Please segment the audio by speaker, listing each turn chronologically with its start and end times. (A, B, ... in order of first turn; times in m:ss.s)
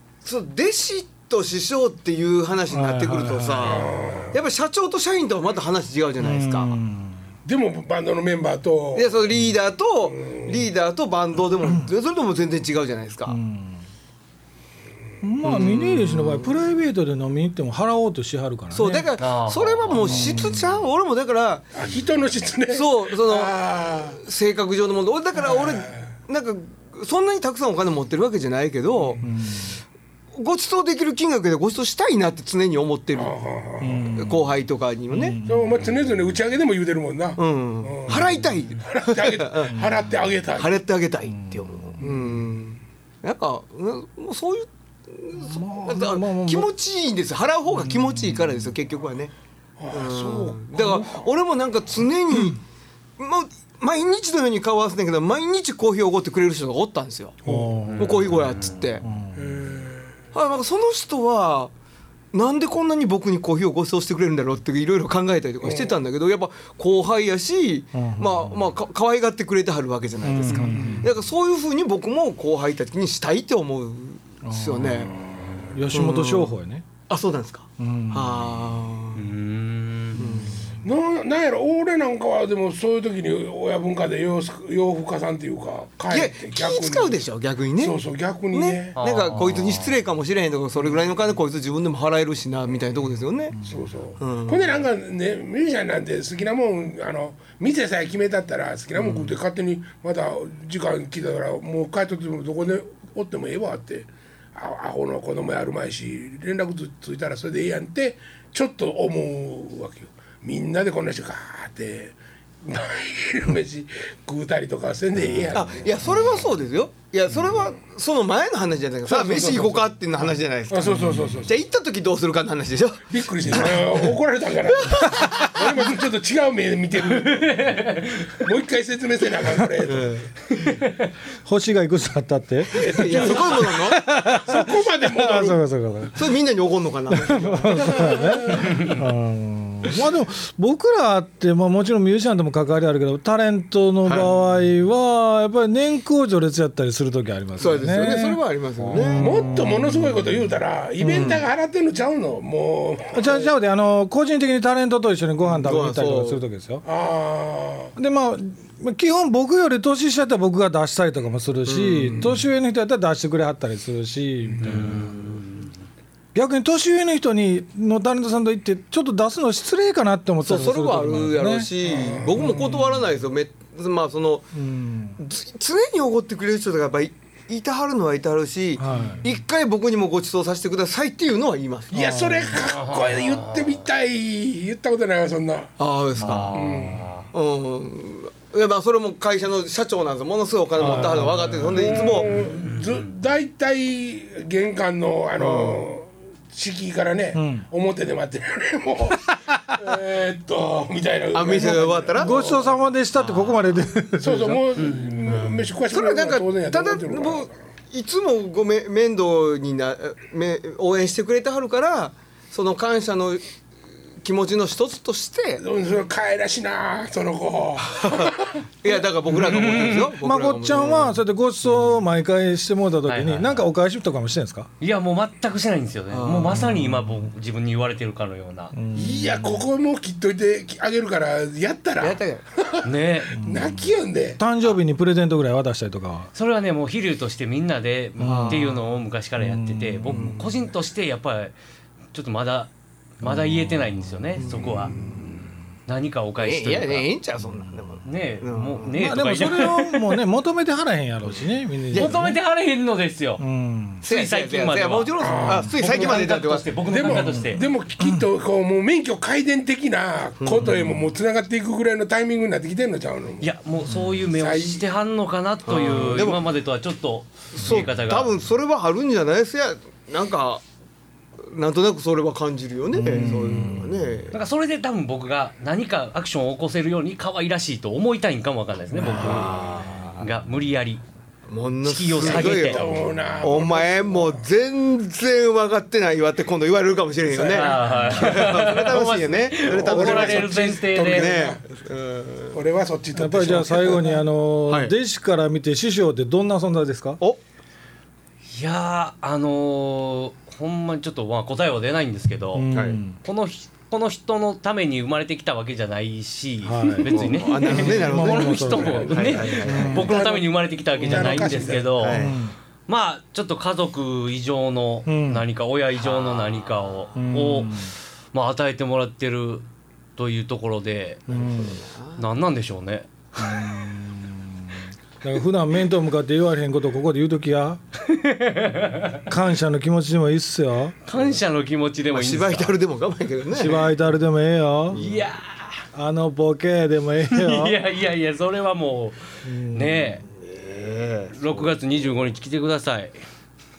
0:00.2-0:06.8 A
0:02.7-0:03.8 B
0:03.6-0:04.4 C
0:06.2-0:07.2 B
0:07.5-0:09.2 C
0:08.9-0:13.4 A
0:10.1-0:10.6 C
0:13.3-0:13.8 B
0:15.2-0:19.1 B
0:15.4-0:16.5 A
0:18.7-0:21.7 A
0:19.2-0:20.4 D
0:20.0-0:20.8 B
0:21.7-0:24.2 C
0:22.7-0:23.6 A
0:24.2-0:29.2 A
0:25.4-0:26.1 C
0:29.0-0:29.3 C
0:29.2-0:29.8 B
0:30.3-0:33.3 A
0:33.1-0:34.2 C
0:33.8-0:34.4 B
0:34.2-0:35.4 A
0:35.1-0:35.8 B
0:35.4-0:40.8 C
0:37.4-0:39.8 A
0:40.6-0:49.3 A
0:41.3-0:42.0 B
0:42.0-0:42.3 C
0:45.4-0:46.7 B
0:47.8-0:48.7 B
0:49.8-0:51.3 C
0:49.9-0:52.6 A
0:53.2-0:57.4 A
0:57.4-0:57.8 C
0:57.4-0:58.3 B
0:57.8-0:58.8 D
0:58.0-0:59.0 A
0:59.0-0:59.5 B
0:59.4-1:00.2 C
1:00.3-1:01.7 A
1:02.3-1:15.2 A
1:07.9-1:08.7 B
1:10.2-1:11.1 B
1:10.7-1:11.1 C
1:14.4-1:16.8 B
1:15.9-1:16.6 A
1:17.1-1:19.3 A
1:17.8-1:18.6 B
1:19.2-1:20.2 D
1:20.2-1:20.6 A
1:20.8-1:27.2 C
1:26.1-1:28.0 A
1:27.8-1:29.0 C
1:28.5-1:33.6 A
1:29.0-1:30.0 D
1:33.5-1:33.9 B
1:33.6-1:56.0 C
1:34.2-1:34.8 A
1:39.0-1:39.3 A
1:55.5-2:04.0 A
1:59.1-1:59.9 C
2:00.7-2:01.5 C
2:03.1-2:10.3 C
2:04.9-2:05.7 A
2:07.0-2:08.5 D
2:09.8-2:10.7 A
2:11.4-2:16.2 B
2:12.7-2:14.0 A
2:12.7-2:15.6 C
2:16.2-2:18.8 A
2:17.1-2:30.3 B
2:24.0-2:24.4 A
2:27.6-2:29.5 A
2:29.2-2:33.5 C
2:31.0-2:31.4 B
2:31.0-2:31.4 A
2:33.1-2:36.8 B
2:35.6-2:36.4 A
2:36.8-2:37.9 C
2:38.0-2:45.1 B
2:41.7-2:42.4 A
2:44.6-2:45.4 D
2:44.8-2:45.4 A
2:46.3-2:52.8 B
2:50.4-2:54.5 A
2:51.9-2:52.8 C
2:54.5-2:55.2 B
2:55.2-3:02.0 A
2:58.8-2:59.2 B
3:01.9-3:05.8 C
3:01.9-3:02.6 B
3:02.6-3:03.8 D
3:05.8-3:12.3 A
3:06.2-3:07.3 D
3:06.5-3:07.1 C
3:10.8-3:11.5 B
3:11.7-3:22.7 C
3:12.2-3:13.1 D
3:15.4-3:15.8 A
3:17.3-3:17.7 B
3:21.3-3:22.4 A
3:22.2-3:24.7 B
3:23.2-3:23.5 D
3:24.2-3:27.5 C
3:24.8-3:25.1 D
3:25.3-3:33.4 A
3:34.2-3:35.6 A
3:35.6-3:38.6 C
3:38.8-3:41.2 A
3:39.4-3:40.1 D
3:40.1-3:44.7 B
3:43.0-3:43.7 D
3:44.8-3:48.7 D
3:46.1-3:46.7 A
3:46.6-3:46.9 B
3:48.7-3:49.6 B
3:48.9-3:54.4 C
3:52.0-3:52.4 A
3:52.8-3:53.4 D
3:53.3-3:53.8 B
3:54.4-3:56.3 B
3:56.3-4:01.5 D
3:58.2-3:58.8 B
3:58.2-3:58.8 A
3:59.4-4:00.3 B
4:00.1-4:00.6 A
4:02.1-4:05.1 D
4:03.2-4:03.7 B
4:04.4-4:05.3 A
4:05.9-4:07.1 D
4:06.4-4:09.0 A
4:08.0-4:10.2 D
4:09.0-4:12.4 B
4:11.9-4:12.3 A
4:11.9-4:13.4 D
4:13.4-4:14.0 B
4:14.0-4:17.7 D
4:14.0-4:16.7 A
4:15.2-4:15.8 C
4:16.9-4:23.5 C
4:17.0-4:18.3 B
4:23.4-4:28.3 D
4:24.4-4:24.8 C
4:25.7-4:26.4 A
4:27.5-4:30.6 A
4:31.4-4:34.4 A
4:32.9-4:34.2 B
4:34.3-4:41.0 D
4:39.0-4:40.3 A
4:41.5-4:42.9 A
4:41.8-4:42.8 D
4:42.2-4:44.4 C
4:43.4-4:52.6 A
4:47.3-4:48.1 C
4:47.5-4:51.3 D
4:49.7-4:51.6 C
4:52.5-4:54.2 C
4:53.1-4:57.2 B
4:54.7-4:54.9 A
4:58.5-5:19.6 D
5:02.5-5:03.2 B
5:02.7-5:03.0 A
5:06.6-5:10.2 B
5:07.0-5:10.0 A
5:09.9-5:11.9 C
5:11.0-5:11.6 B
5:11.8-5:12.4 A
5:12.1-5:12.5 B
5:15.1-5:15.4 B
5:16.0-5:17.0 A
5:17.2-5:17.9 B
5:20.2-5:21.3 D
5:21.3-5:21.8 B
5:21.3-5:22.2 A
5:22.2-5:23.7 D
5:23.4-5:27.8 B
5:28.0-5:29.3 D
5:29.3-5:30.9 B
5:31.1-5:32.8 D
5:32.1-5:33.8 A
5:33.5-5:35.0 B
5:34.9-5:35.3 A
5:34.9-5:35.8 D
5:35.9-5:37.8 B
5:37.3-5:40.2 D
5:39.4-5:40.2 B
5:40.3-5:41.7 A
5:41.4-5:43.2 D